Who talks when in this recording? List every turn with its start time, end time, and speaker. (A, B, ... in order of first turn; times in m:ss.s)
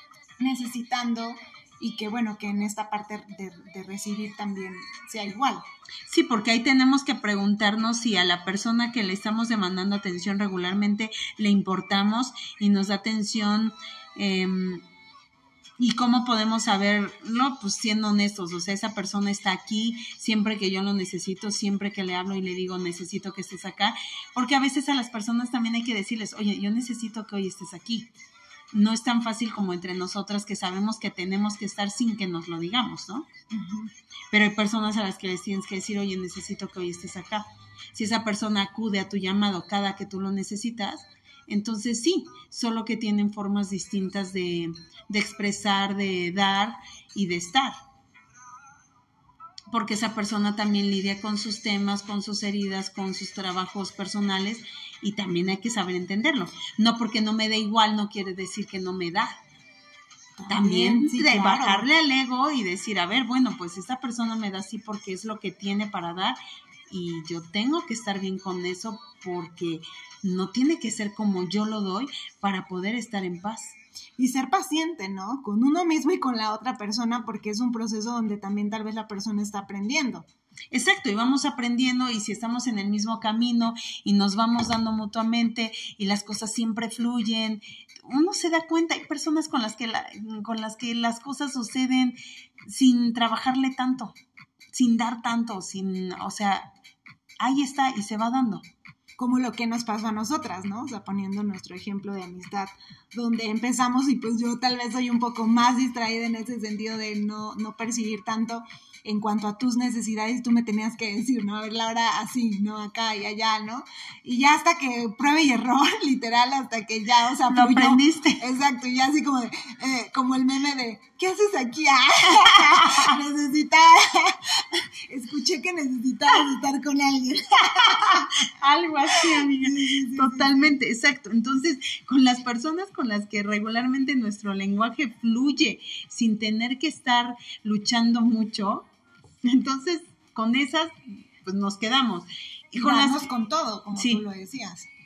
0:00.4-0:05.6 A
0:06.1-0:14.8 B
0:15.8-0:28.1 B
0:28.7-0:33.3 B
0:33.5-0:33.9 A
0:34.3-0:47.8 B
0:49.7-0:59.4 B
1:00.4-1:01.9 A
1:00.5-1:06.4 B
1:06.9-1:13.8 B
1:14.2-1:20.3 A
1:20.7-1:34.2 B
1:34.7-1:36.7 B
1:37.4-1:38.7 B
1:39.2-2:08.3 A
1:57.4-1:58.4 B
2:02.6-2:03.1 B
2:08.0-2:18.9 B
2:09.1-2:10.8 A
2:19.4-2:23.3 B
2:22.8-2:24.9 A
2:23.9-2:24.2 B